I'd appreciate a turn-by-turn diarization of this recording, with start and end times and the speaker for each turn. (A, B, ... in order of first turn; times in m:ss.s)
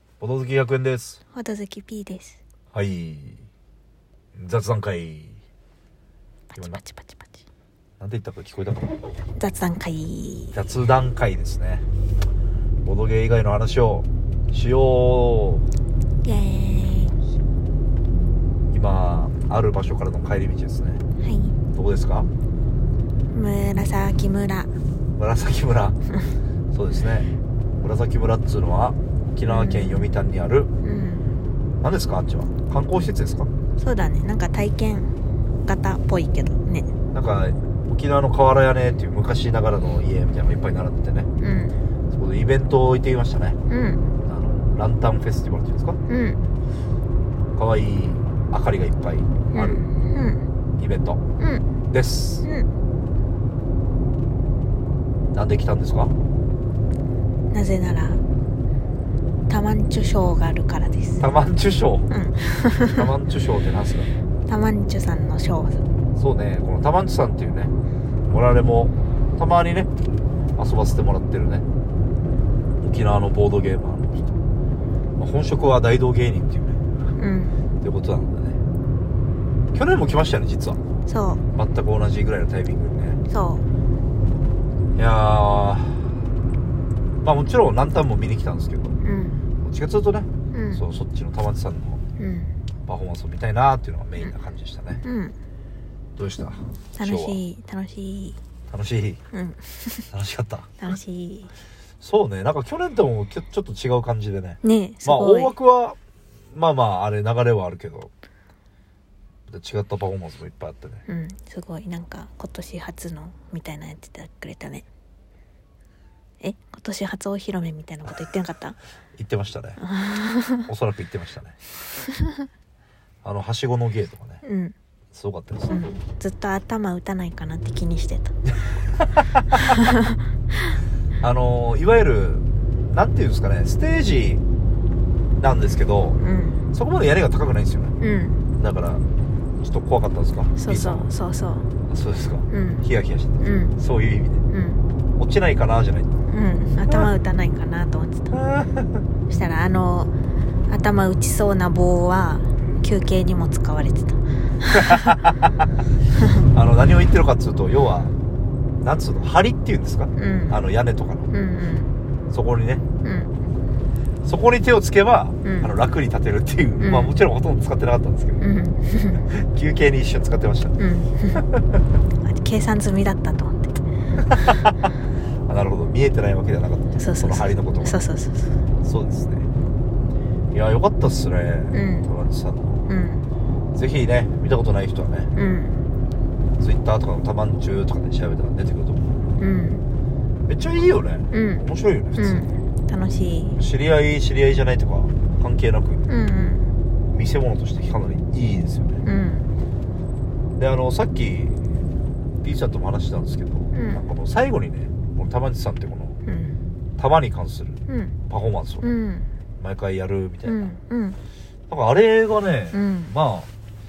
0:00.2-0:01.2 A
0:01.3-0:02.4 B
0:02.7-0:03.4 A
0:04.3-0:05.4 A
0:06.5-0:07.4 B
0:08.0-0:09.0 A
0:09.4-0:10.6 B
0:10.5-0:11.8 A
0:12.8-0:15.6 A
0:16.2-0:17.2 B
0:18.7-0:21.0 A
0:21.2-0:21.6 B
0:21.7-0:22.3 A
0:23.3-0:24.7 B
0:25.2-0:26.0 A
0:26.7-0:30.7 A
0:29.4-0:30.1 B
0:30.8-0:31.2 B
0:31.8-0:33.5 A
0:33.8-0:35.1 B
0:35.6-0:36.9 B
0:37.1-0:41.3 A
0:41.4-0:41.8 B
0:42.1-0:43.6 A
0:43.7-0:44.1 B
0:44.2-0:46.0 A
0:46.1-0:46.4 B
0:47.5-0:49.8 A
0:49.5-0:50.4 B
0:50.8-0:51.2 A
0:51.4-0:51.7 B
0:51.9-0:52.4 A
0:52.4-0:52.7 B
0:55.3-0:56.1 A
0:57.5-0:58.2 B
0:59.5-1:01.2 B
1:01.2-1:02.1 A
1:02.1-1:03.1 B
1:03.0-1:04.1 A
1:04.5-1:05.8 B
1:06.2-1:07.7 A
1:08.3-1:09.9 A
1:10.6-1:11.6 A
1:12.8-1:14.3 A
1:15.2-1:16.8 A
1:17.2-1:17.6 B
1:17.8-1:18.6 A
1:19.7-1:20.8 A
1:21.0-1:21.4 B
1:21.5-1:23.2 A
1:23.3-1:23.6 B
1:25.0-1:26.1 A
1:27.2-1:29.0 A
1:29.0-1:29.4 B
1:29.6-1:32.0 A
1:30.5-1:30.8 B
1:32.2-1:32.5 B
1:32.8-1:35.0 A
1:35.0-1:35.3 B
1:36.2-1:37.4 A
1:37.0-1:38.4 B
1:38.7-1:39.2 A
1:39.3-1:40.1 B
1:40.1-1:40.8 A
1:40.8-1:41.5 B
1:42.0-1:46.0 A
1:44.6-1:45.5 B
1:46.5-1:48.1 A
1:49.5-1:51.0 A
1:51.1-1:54.8 B
1:56.4-1:58.8 B
1:59.2-1:59.8 A
1:59.8-2:00.7 B
2:00.7-2:01.6 A
2:02.2-2:02.4 B
2:03.2-2:04.4 A
2:04.4-2:04.7 B
2:05.1-2:05.8 A
2:05.7-2:08.3 B
2:09.5-2:10.2 B
2:11.2-2:14.4 A
2:15.4-2:16.2 A
2:16.2-2:16.6 B
2:16.7-2:17.9 A
2:18.0-2:18.4 B
2:18.6-2:19.0 A
2:19.6-2:21.1 A
2:20.6-2:21.7 B
2:21.9-2:24.4 A
2:22.5-2:22.8 B
2:23.4-2:23.8 B
2:24.5-2:24.8 B
2:25.2-2:26.2 A
2:26.3-2:28.4 B
2:28.3-2:29.0 A
2:29.3-2:30.1 B
2:30.7-2:35.2 B
2:34.7-2:35.5 A
2:36.5-2:38.1 A
2:38.8-2:41.3 A
2:40.2-2:40.6 B
2:41.3-2:41.9 B
2:42.3-2:42.8 A
2:43.0-2:43.3 B
2:44.2-2:48.4 A
2:45.4-2:45.7 B
2:46.8-2:47.1 B
2:48.4-2:49.2 B
2:49.3-2:50.8 A
2:50.8-2:51.5 B
2:52.2-2:53.8 B
2:54.2-2:54.7 A
2:55.5-2:58.0 A
2:57.0-2:58.6 B
2:58.8-2:59.5 A
3:00.5-3:02.9 A
3:01.7-3:02.1 B
3:02.9-3:03.2 B
3:03.7-3:05.3 A
3:05.3-3:05.8 B
3:06.6-3:09.2 A
3:09.4-3:09.8 B
3:10.5-3:12.5 A
3:11.3-3:13.6 B
3:13.6-3:16.0 A
3:16.1-3:16.7 B
3:17.1-3:19.0 A
3:19.0-3:19.5 B
3:20.6-3:21.6 A
3:22.4-3:26.2 A
3:23.7-3:24.0 B
3:26.2-3:26.6 B
3:27.0-3:28.9 A
3:27.9-3:28.2 B
3:28.8-3:29.3 B
3:29.6-3:30.8 A
3:30.4-3:31.2 B
3:31.7-3:33.5 A
3:32.7-3:33.1 B